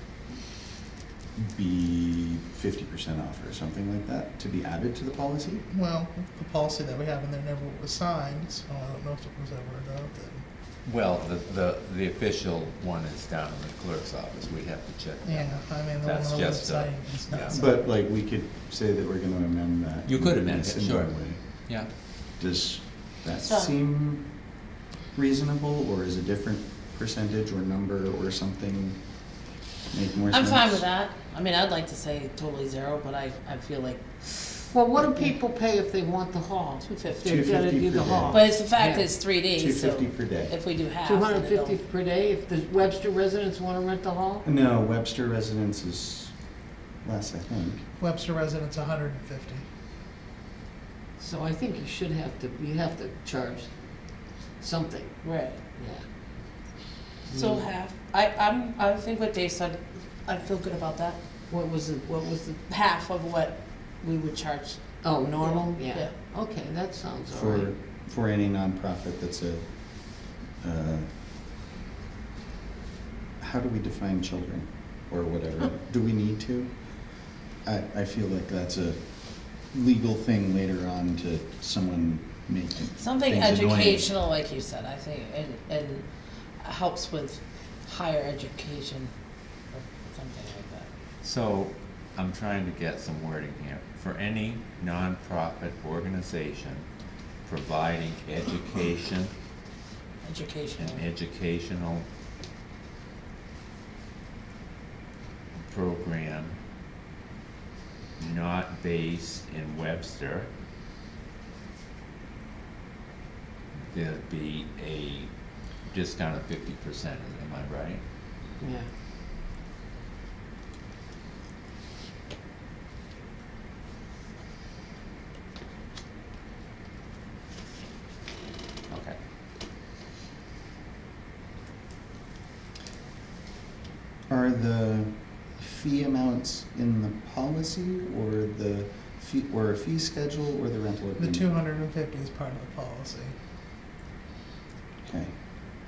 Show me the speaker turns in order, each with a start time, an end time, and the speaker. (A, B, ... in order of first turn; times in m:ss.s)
0:01.4-0:05.6 A
0:05.7-0:10.4 B
0:10.8-0:17.6 C
0:15.2-0:17.8 B
0:17.5-0:21.4 A
0:20.0-0:21.9 C
0:22.4-0:24.3 A
0:23.4-0:23.7 D
0:25.1-0:29.0 A
0:29.9-0:30.8 A
0:30.3-0:34.7 D
0:34.7-0:39.1 E
0:36.8-0:37.4 D
0:37.2-0:38.5 A
0:38.3-0:41.8 D
0:39.5-0:40.5 A
0:41.0-0:44.4 E
0:44.4-0:46.3 A
0:47.0-0:47.8 A
0:48.0-0:49.6 B
0:51.2-0:53.7 E
0:54.6-0:55.1 E
0:55.2-0:55.6 D
0:55.8-0:56.0 E
0:57.3-0:57.7 E
0:57.3-1:01.2 D
1:01.5-1:02.6 E
1:02.7-1:04.8 D
1:05.0-1:07.7 E
1:05.4-1:06.1 D
1:07.3-1:11.1 A
1:13.4-1:16.7 A
1:17.6-1:24.1 A
1:22.9-1:26.1 D
1:26.6-1:29.1 D
1:29.7-1:30.9 D
1:31.2-1:36.9 C
1:37.4-1:39.3 C
1:40.2-1:41.0 D
1:40.8-1:42.0 C
1:45.6-1:46.6 C
1:48.2-1:50.5 C
1:53.8-1:55.3 C
1:55.9-1:58.0 C
1:58.6-1:58.9 E
2:08.9-2:09.2 C
2:14.3-2:21.5 A
2:21.2-2:23.3 B
2:25.0-2:25.3 A